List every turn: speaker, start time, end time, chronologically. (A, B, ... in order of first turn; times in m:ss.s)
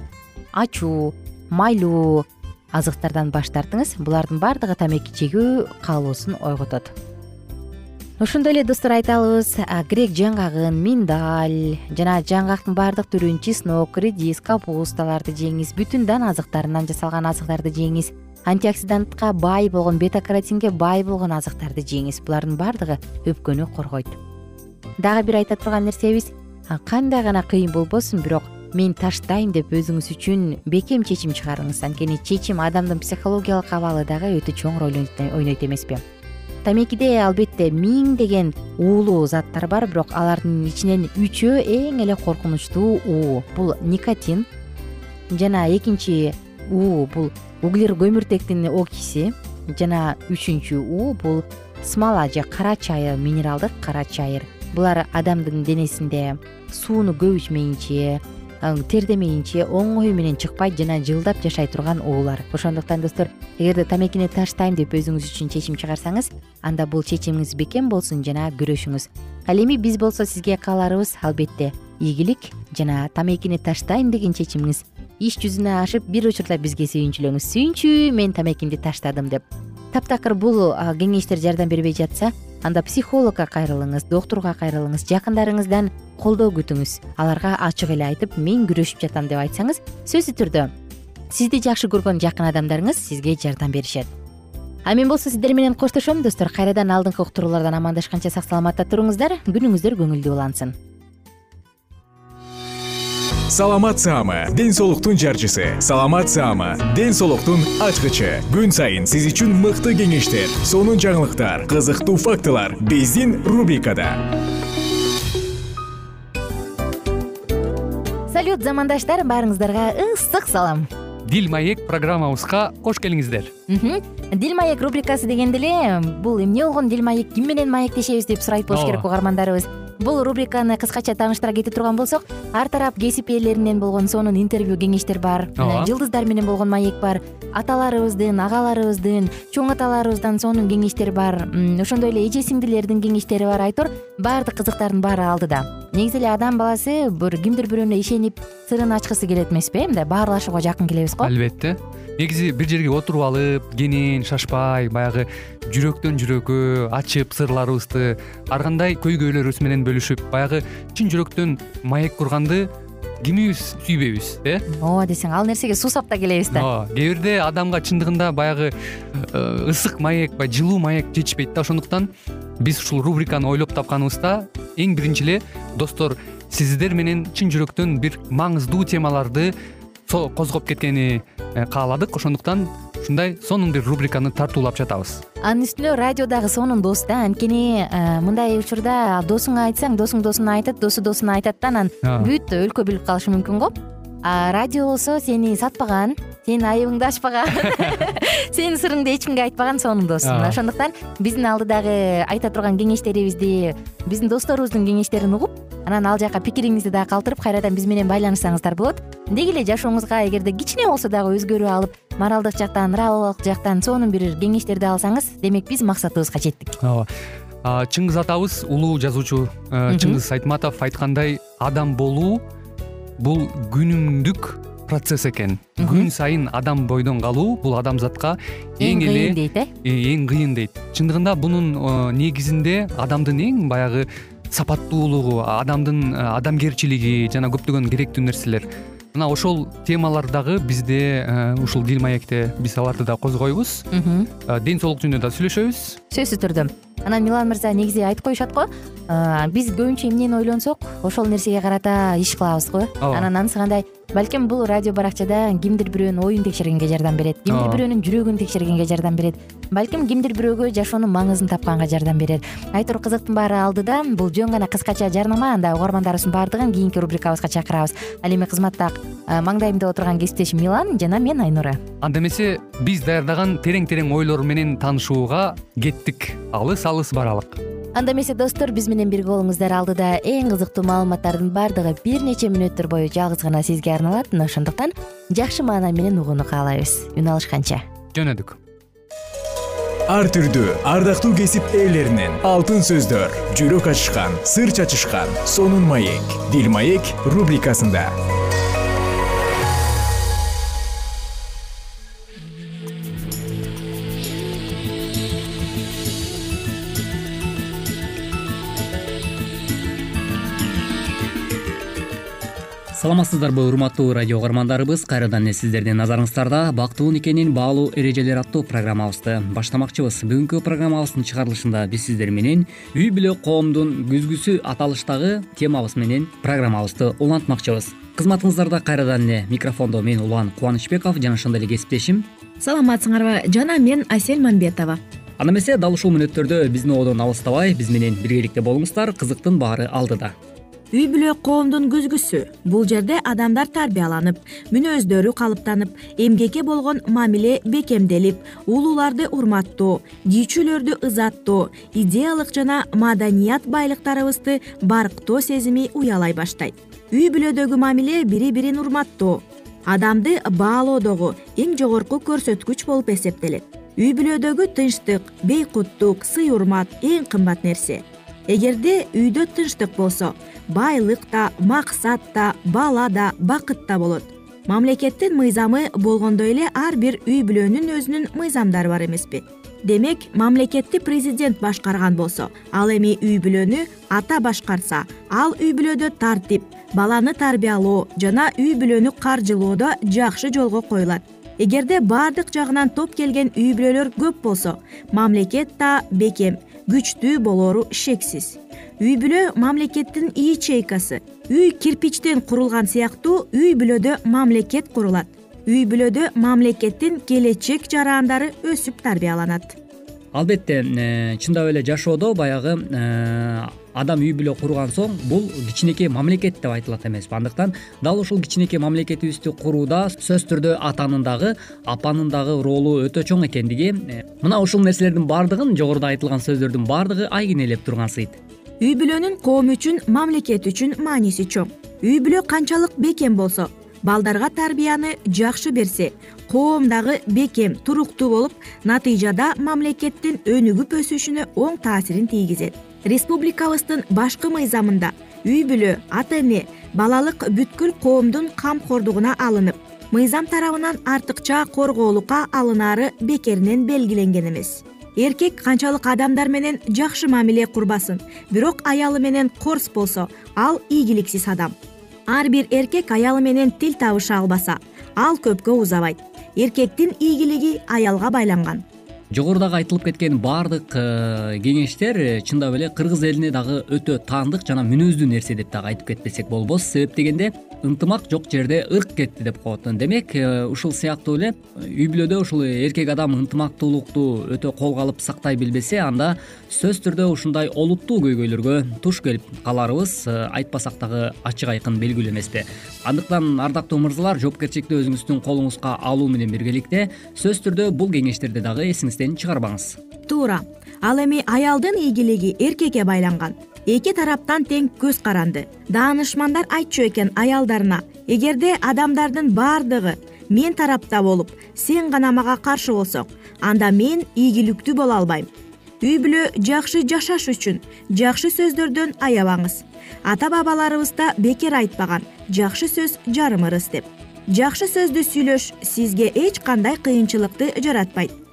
0:00.5-0:06.9 A
0:08.2-0:24.2 A
0:25.0-0:36.0 A
0:36.6-0:44.5 A
0:45.3-1:30.7 A
1:31.3-1:34.1 A
1:34.8-1:40.7 A
1:43.5-1:54.2 B
1:58.3-2:00.9 A
2:01.2-2:03.5 C
2:03.7-2:31.3 A
2:08.7-2:09.0 C
2:15.6-2:15.9 C
2:31.2-2:42.7 C
2:43.2-2:44.6 C
2:44.7-2:46.7 A
2:46.5-2:52.1 C
2:52.6-2:59.5 C
3:00.1-3:05.2 C
3:05.4-3:36.8 A
3:12.0-3:12.3 C
3:20.2-3:20.6 C
3:36.8-3:37.1 C
3:37.6-3:42.4 C
3:39.9-3:40.2 A
3:43.2-4:03.8 C
3:45.8-3:46.1 A
3:48.8-3:49.7 A
4:03.9-4:04.3 A
4:04.5-4:06.0 C
4:06.1-4:31.8 A
4:13.0-4:13.3 C
4:17.5-4:17.8 C
4:32.0-4:37.6 C
4:37.9-4:47.8 A
4:48.1-4:48.6 C
4:50.1-4:58.1 B
5:12.9-5:32.3 D
5:32.6-5:35.0 E
5:35.4-5:40.3 D
5:40.9-6:49.8 E
6:50.3-7:08.4 D
7:08.8-7:41.8 E
7:42.3-7:48.8 E
7:49.3-8:20.0 D
8:20.3-8:35.5 E
8:36.0-8:48.3 E